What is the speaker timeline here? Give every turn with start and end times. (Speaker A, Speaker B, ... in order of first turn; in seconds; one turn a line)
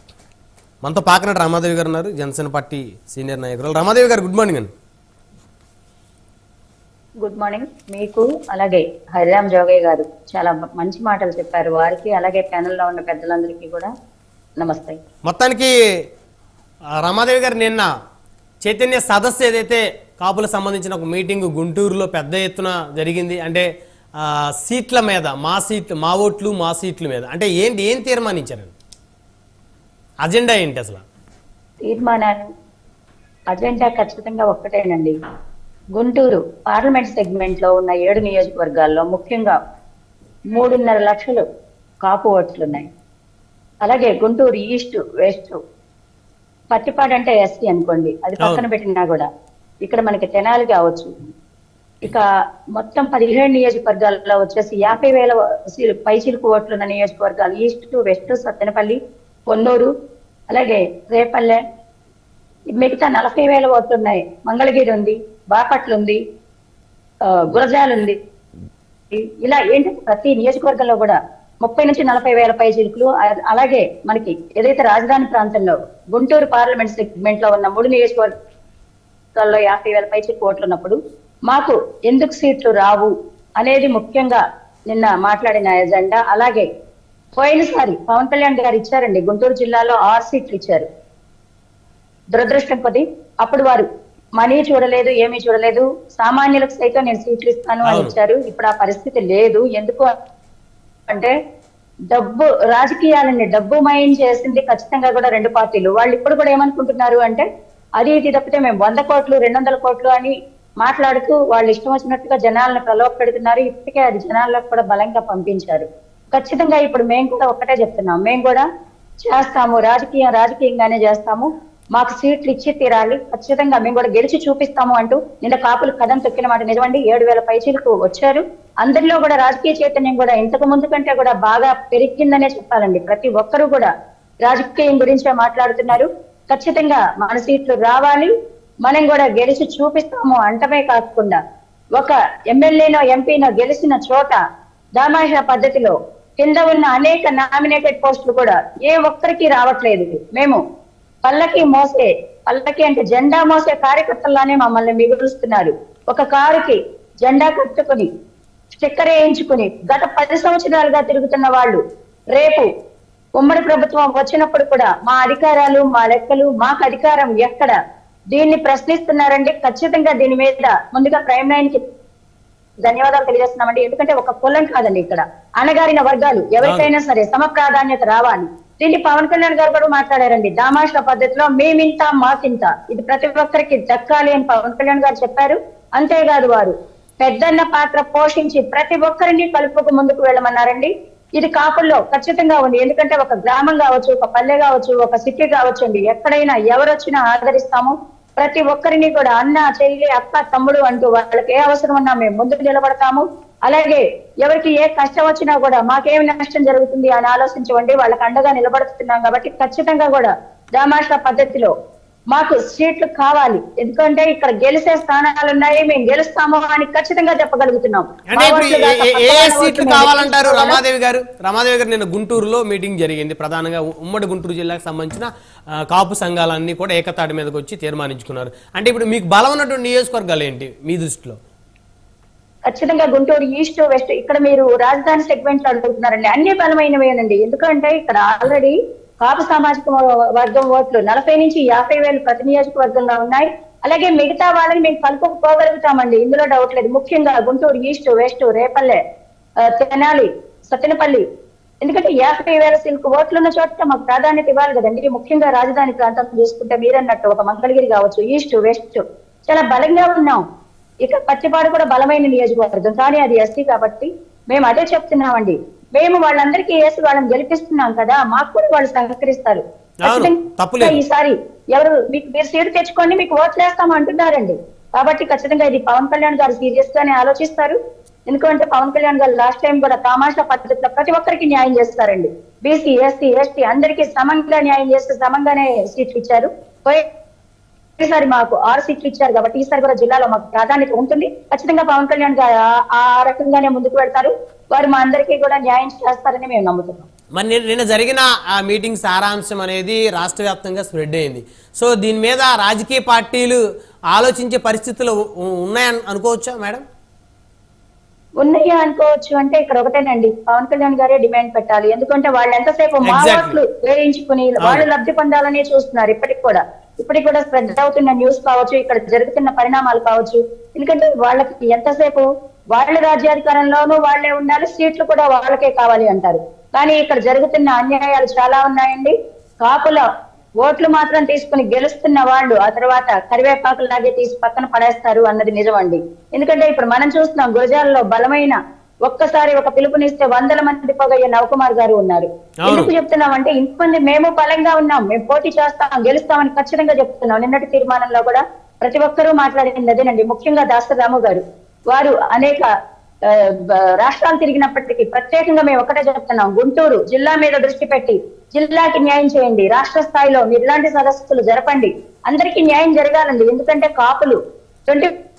Speaker A: 0.8-4.7
Speaker B: 7.2-13.9
Speaker B: 14.6-15.0
Speaker A: 15.3-15.7
Speaker A: 17.0-17.9
Speaker A: 18.6-23.7
Speaker A: 24.2-28.7
Speaker A: 30.2-31.0
Speaker B: 31.8-32.5
Speaker B: 33.5-35.1
Speaker B: 36.0-39.6
Speaker B: 40.5-41.4
Speaker B: 42.0-42.9
Speaker B: 43.8-45.6
Speaker B: 46.7-49.2
Speaker B: 49.9-51.1
Speaker B: 52.8-59.0
Speaker B: 59.5-59.9
Speaker B: 60.5-61.6
Speaker B: 62.8-66.2
Speaker B: 67.3-68.2
Speaker B: 69.1-78.3
Speaker B: 79.4-81.0
Speaker B: 81.5-86.7
Speaker B: 87.4-90.9
Speaker B: 92.3-93.9
Speaker B: 94.4-100.1
Speaker B: 102.1-107.5
Speaker B: 108.0-118.7
Speaker B: 119.2-133.9
Speaker B: 134.4-138.3
Speaker B: 138.8-141.4
Speaker B: 141.9-144.4
Speaker B: 145.0-150.6
Speaker B: 151.2-158.1
Speaker B: 158.7-161.8
Speaker B: 162.3-162.7
Speaker B: 163.4-167.7
Speaker B: 168.3-171.8
Speaker B: 172.8-211.7
Speaker A: 176.6-176.9
Speaker B: 212.3-220.8
Speaker A: 218.3-225.3
Speaker A: 225.9-231.4
Speaker B: 232.7-249.0
Speaker B: 249.6-251.2
Speaker B: 251.8-260.4
Speaker B: 261.0-277.8
Speaker A: 270.0-271.0
Speaker B: 278.3-287.0
Speaker B: 288.0-297.1
Speaker A: 297.4-303.6
Speaker A: 304.1-306.8
Speaker B: 308.4-330.0
Speaker A: 313.1-313.6
Speaker A: 314.6-314.9
Speaker B: 330.6-352.7
Speaker A: 342.6-342.9
Speaker B: 353.3-365.1